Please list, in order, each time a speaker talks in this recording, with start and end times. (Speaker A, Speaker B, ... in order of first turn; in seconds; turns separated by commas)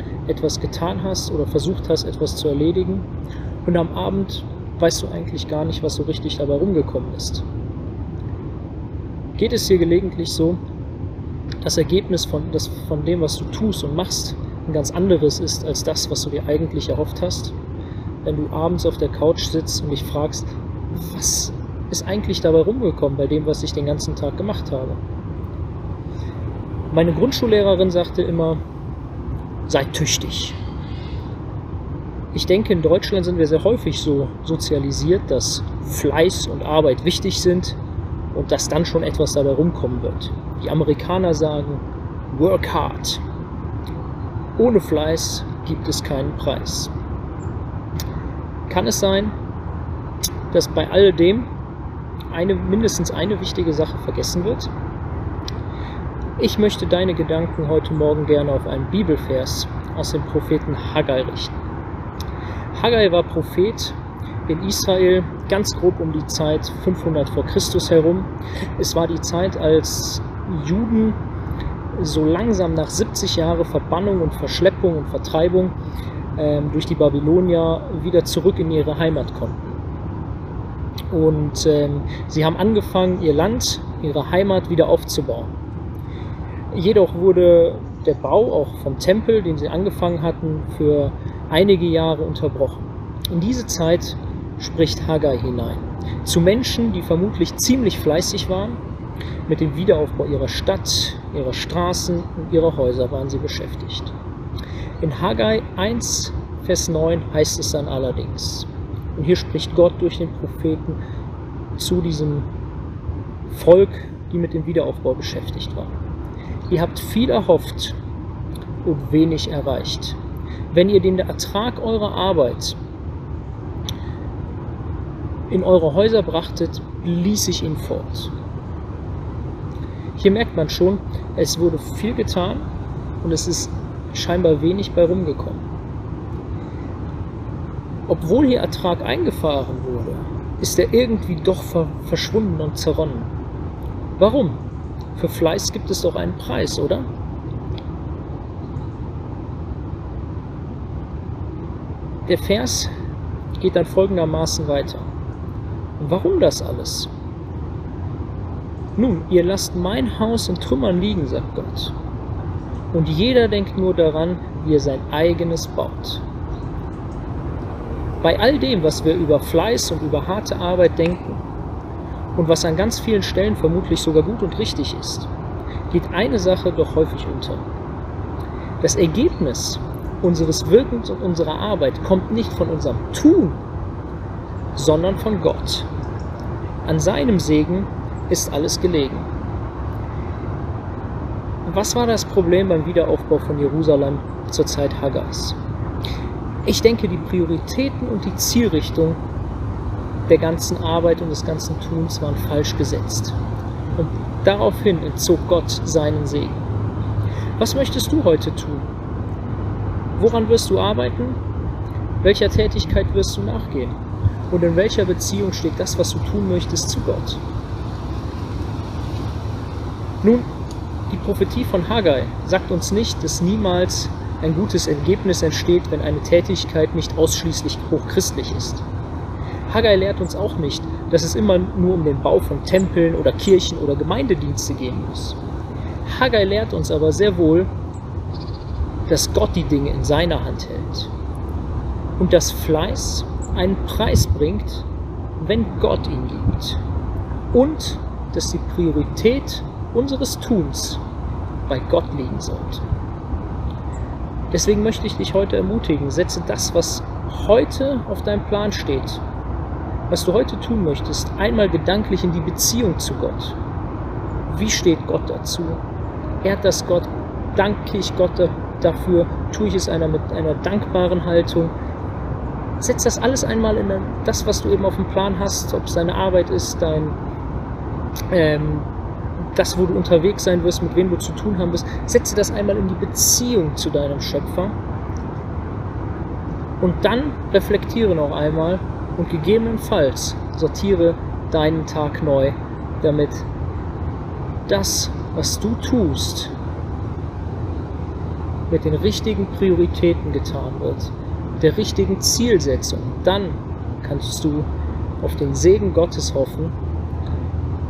Speaker A: 0.3-3.1, Speaker A: 3.6-7.5, Speaker A: 9.4-10.6, Speaker A: 11.6-17.6, Speaker A: 18.2-25.0, Speaker A: 26.9-28.6, Speaker A: 29.7-30.6, Speaker A: 32.3-37.8, Speaker A: 38.3-43.2, Speaker A: 44.6-46.9, Speaker A: 48.7-49.3, Speaker A: 50.5-51.5, Speaker A: 52.3-54.7, Speaker A: 56.4-61.5, Speaker A: 62.7-71.2, Speaker A: 72.0-75.8, Speaker A: 76.4-79.8, Speaker A: 81.1-85.5, Speaker A: 86.7-98.8, Speaker A: 99.5-104.1, Speaker A: 105.0-111.0, Speaker A: 111.8-112.5, Speaker A: 113.5-116.0, Speaker A: 116.7-118.0, Speaker A: 118.8-120.2, Speaker A: 120.7-122.8, Speaker A: 125.5-128.3, Speaker A: 130.2-132.7, Speaker A: 133.2-135.7, Speaker A: 138.1-143.3, Speaker A: 144.2-144.6, Speaker A: 145.2-147.1, Speaker A: 152.3-152.9, Speaker A: 153.6-155.1, Speaker A: 156.0-157.1, Speaker A: 159.0-161.9, Speaker A: 162.9-166.2, Speaker A: 168.2-171.4, Speaker A: 172.4-175.3, Speaker A: 175.9-177.7, Speaker A: 178.8-183.6, Speaker A: 184.8-185.9, Speaker A: 186.8-189.3, Speaker A: 191.7-195.6, Speaker A: 196.7-199.2, Speaker A: 200.3-203.4, Speaker A: 204.0-206.6, Speaker A: 207.6-208.9, Speaker A: 210.2-211.4, Speaker A: 212.2-214.0, Speaker A: 214.5-217.4, Speaker A: 221.1-228.8, Speaker A: 229.7-235.4, Speaker A: 236.1-237.7, Speaker A: 239.1-241.1, Speaker A: 242.2-244.9, Speaker A: 245.4-246.8, Speaker A: 247.5-251.0, Speaker A: 251.7-252.8, Speaker A: 254.5-259.2, Speaker A: 260.1-263.6, Speaker A: 264.5-265.8, Speaker A: 266.4-271.7, Speaker A: 272.8-277.2, Speaker A: 278.3-278.9, Speaker A: 279.5-284.8, Speaker A: 286.8-293.5, Speaker A: 294.7-296.5, Speaker A: 298.7-304.7, Speaker A: 305.2-306.8